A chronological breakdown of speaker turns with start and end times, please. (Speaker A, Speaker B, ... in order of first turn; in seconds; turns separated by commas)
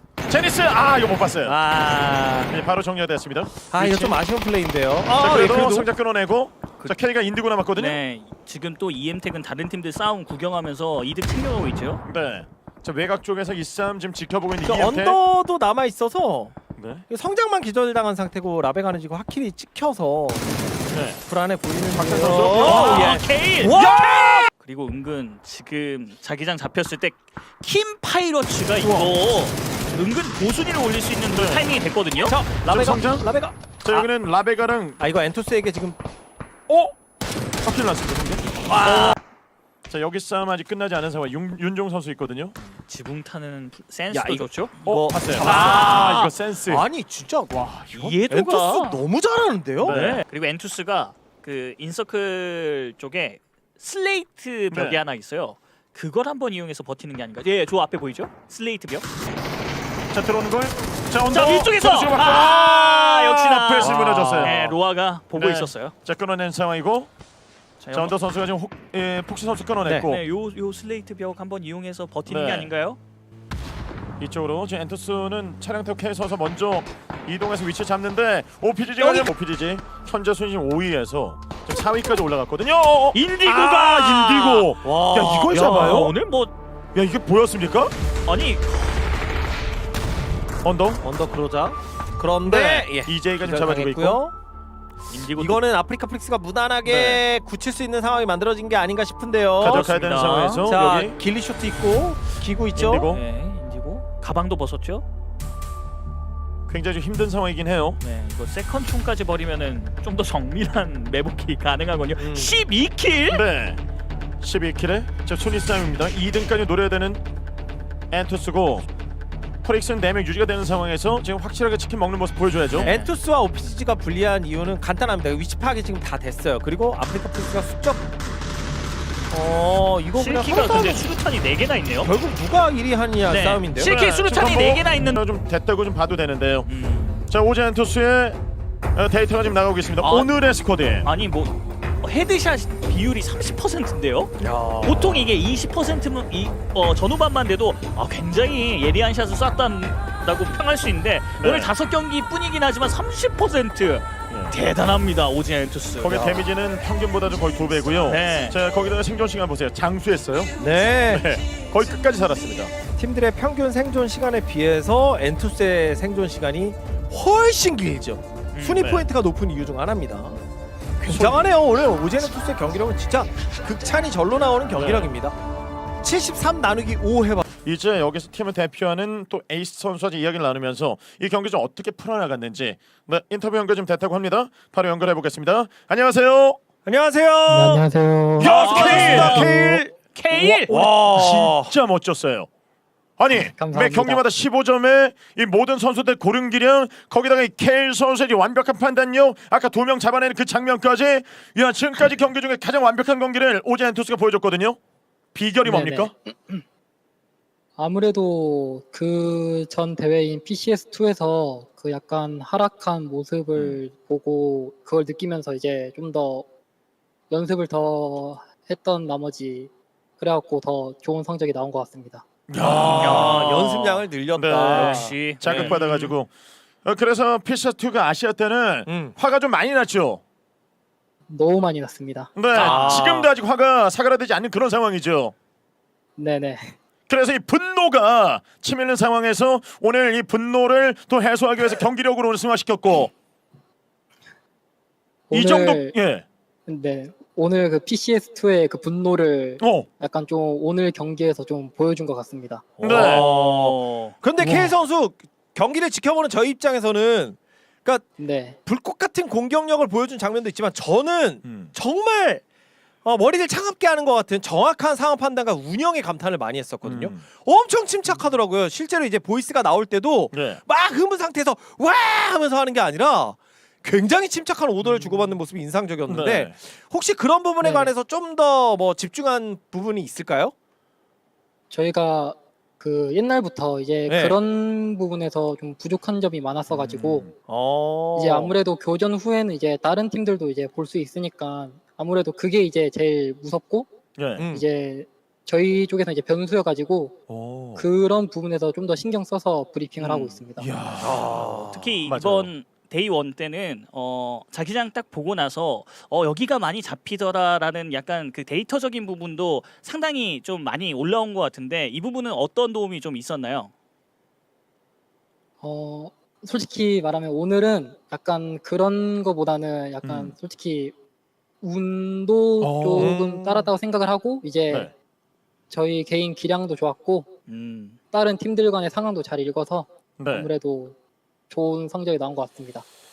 Speaker A: 0.3-1.5, Speaker B: 1.4-2.5, Speaker A: 2.5-4.2, Speaker B: 3.7-5.9, Speaker A: 5.1-8.0, Speaker C: 7.8-12.0, Speaker A: 12.0-15.2, Speaker B: 14.6-20.7, Speaker A: 16.7-17.1, Speaker A: 20.9-21.2, Speaker B: 21.2-24.4, Speaker A: 21.9-23.2, Speaker C: 22.5-23.9, Speaker A: 23.7-24.5, Speaker C: 24.5-32.3, Speaker A: 28.8-29.1, Speaker A: 31.3-31.7, Speaker B: 32.2-34.1, Speaker A: 32.6-35.0, Speaker B: 35.0-36.0, Speaker A: 36.7-36.9, Speaker A: 37.6-39.1, Speaker C: 38.6-39.2, Speaker B: 38.8-39.1, Speaker A: 39.9-42.5, Speaker C: 42.6-46.3, Speaker B: 44.1-50.0, Speaker A: 44.9-46.9, Speaker A: 47.5-47.9, Speaker C: 47.9-49.0, Speaker A: 49.8-50.2, Speaker C: 49.8-59.0, Speaker A: 54.7-55.0, Speaker A: 60.1-64.7, Speaker C: 61.3-65.9, Speaker B: 63.8-64.5, Speaker A: 65.3-67.1, Speaker C: 67.8-68.1, Speaker A: 67.9-70.2, Speaker C: 70.0-73.0, Speaker A: 72.3-72.7, Speaker A: 74.2-86.1, Speaker C: 79.0-79.3, Speaker C: 83.1-86.5, Speaker B: 84.9-86.1, Speaker A: 86.9-87.9, Speaker C: 88.2-89.1, Speaker A: 90.6-91.0, Speaker B: 91.0-94.3, Speaker A: 92.4-94.2, Speaker C: 95.1-95.6, Speaker B: 95.4-99.9, Speaker A: 96.8-97.2, Speaker A: 99.6-101.2, Speaker C: 99.6-100.8, Speaker B: 100.7-103.1, Speaker C: 102.8-105.0, Speaker A: 102.8-103.2, Speaker A: 106.7-108.0, Speaker C: 108.0-113.4, Speaker B: 112.2-112.5, Speaker A: 113.3-113.8, Speaker A: 114.4-117.2, Speaker A: 118.1-118.9, Speaker A: 119.6-122.9, Speaker C: 122.7-123.1, Speaker B: 122.8-128.1, Speaker B: 129.3-131.1, Speaker C: 130.1-132.1, Speaker B: 132.0-133.9, Speaker C: 133.2-135.2, Speaker A: 133.8-136.7, Speaker C: 136.7-137.2, Speaker A: 137.3-138.4, Speaker A: 138.9-141.1, Speaker C: 140.0-140.3, Speaker C: 141.0-156.4, Speaker B: 144.4-145.1, Speaker A: 151.4-151.7, Speaker A: 156.0-160.5, Speaker C: 158.0-158.6, Speaker B: 160.6-161.3, Speaker A: 161.1-162.7, Speaker B: 162.9-170.4, Speaker C: 168.5-168.9, Speaker A: 168.7-169.1, Speaker C: 171.0-171.5, Speaker B: 171.1-175.3, Speaker A: 174.7-175.1, Speaker B: 176.0-177.4, Speaker A: 177.6-186.6, Speaker B: 186.8-187.9, Speaker D: 187.5-188.4, Speaker B: 188.4-189.9, Speaker A: 188.4-189.6, Speaker C: 188.4-189.6, Speaker C: 190.1-190.8, Speaker A: 190.3-192.5, Speaker B: 190.7-191.7, Speaker A: 193.2-204.8, Speaker D: 193.3-194.2, Speaker A: 205.3-206.1, Speaker D: 205.6-206.6, Speaker D: 207.8-216.5, Speaker D: 217.3-222.3, Speaker A: 222.5-223.6, Speaker B: 222.6-225.7, Speaker C: 223.0-226.2, Speaker A: 224.3-226.3, Speaker A: 226.8-230.2, Speaker B: 228.9-229.2, Speaker D: 231.3-232.3, Speaker A: 232.3-235.3, Speaker B: 232.5-233.3, Speaker C: 232.5-233.0, Speaker D: 236.2-236.8, Speaker A: 237.1-243.1, Speaker D: 245.3-245.9, Speaker A: 245.3-246.2, Speaker D: 246.7-252.8, Speaker A: 249.6-249.9, Speaker B: 252.8-258.1, Speaker A: 252.8-253.2, Speaker C: 252.8-254.2, Speaker A: 254.4-254.7, Speaker D: 258.2-258.6, Speaker B: 258.6-262.4, Speaker A: 261.4-261.7, Speaker B: 263.0-280.5, Speaker A: 266.8-267.3, Speaker A: 270.3-270.6, Speaker A: 276.1-276.5, Speaker D: 277.6-277.9, Speaker D: 281.7-287.3, Speaker B: 284.1-284.4, Speaker A: 286.7-287.4, Speaker B: 287.4-288.6, Speaker D: 288.1-297.2, Speaker A: 294.1-294.5, Speaker B: 294.4-294.7, Speaker A: 297.3-297.8, Speaker D: 297.8-300.7, Speaker C: 300.0-300.4, Speaker A: 300.6-302.5, Speaker B: 301.0-301.8, Speaker C: 301.7-313.7, Speaker D: 315.6-320.9, Speaker A: 320.0-320.3, Speaker D: 321.6-324.9, Speaker A: 322.6-323.1, Speaker B: 322.7-323.7, Speaker D: 325.7-327.3, Speaker C: 327.5-328.0, Speaker D: 328.1-330.9, Speaker A: 330.2-330.5, Speaker D: 331.5-332.8